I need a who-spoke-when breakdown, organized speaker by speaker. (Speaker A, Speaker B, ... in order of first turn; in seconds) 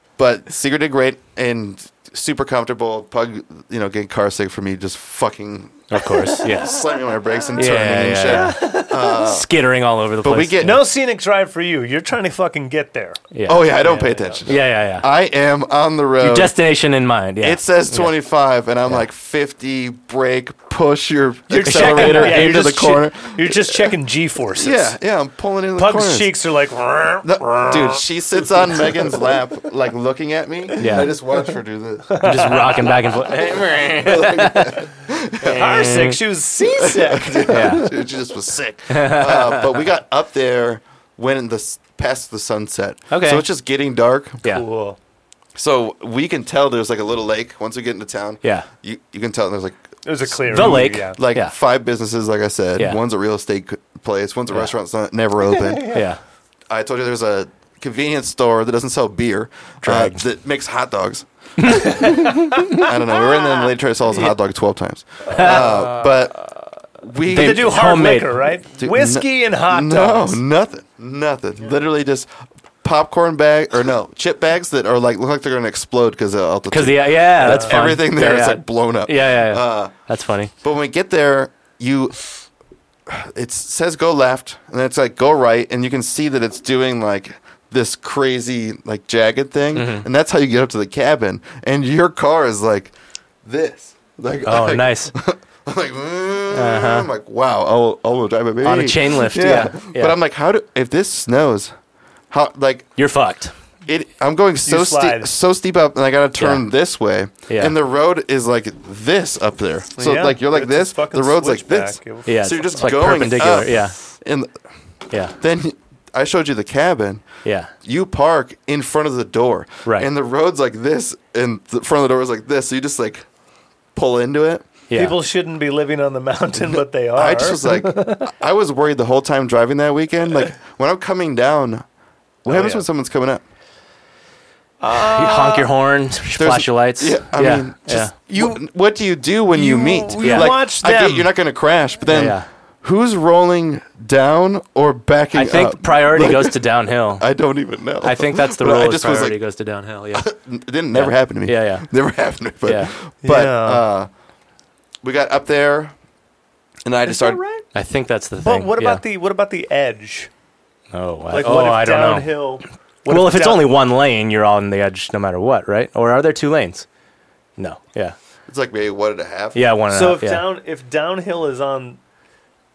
Speaker A: 0.2-9.5, 10.2-10.8, 13.5-16.5, 17.4-23.9, 24.5-26.3, 27.2-36.1, 36.6-44.4, 45.5-56.0, 56.7-66.4, 67.0-67.8, 68.8-72.3, 72.8-79.9, 80.6-82.4, 83.1-92.9, 93.5-101.7, 102.3-103.0, 103.9-114.5, 115.4-117.2, 117.8-123.3, 124.0-124.7, 126.7-131.8, 132.4-133.4, 136.4-146.6, 147.2-149.4, 150.1-154.1, 155.0-155.9, 156.8-157.4, 168.5-169.6
Speaker B: 5.9-6.8, 7.6-10.8, 13.3-13.7, 14.5-15.1, 16.2-18.1, 21.5-23.0, 30.8-31.1, 32.2-34.9, 35.4-36.2, 37.5-37.9, 38.9-39.8, 43.1-43.5, 48.4-48.7, 50.5-51.5, 55.9-56.2, 59.8-60.2, 61.6-62.9, 65.3-65.8, 67.3-68.4, 76.7-80.5, 89.8-90.1, 94.5-95.1, 96.5-97.1, 98.6-100.1, 103.0-103.5, 106.4-106.6, 107.5-107.8, 112.3-114.0, 115.1-115.4, 117.5-117.7, 124.9-125.2, 135.0-138.1, 140.2-140.5, 142.1-142.5, 145.3-147.3, 148.0-150.3, 150.9-151.9, 152.7-152.9, 157.7-159.0, 160.9-162.4, 163.1-166.8, 167.6-168.2, 169.6-170.5
Speaker C: 8.2-9.2, 10.6-13.2, 13.8-14.4, 21.6-24.9, 25.8-29.3, 30.7-31.1, 32.1-33.0, 35.5-37.9, 44.5-45.0, 50.0-51.2, 55.5-56.0, 62.0-63.7, 65.3-66.1, 67.3-70.4, 77.4-77.8, 104.6-105.3, 110.0-112.7, 124.9-128.3, 132.5-132.8, 134.8-135.7, 138.3-138.6, 139.5-141.3, 153.2-153.8, 157.1-157.7, 158.4-160.3, 161.3-163.7, 169.9-172.0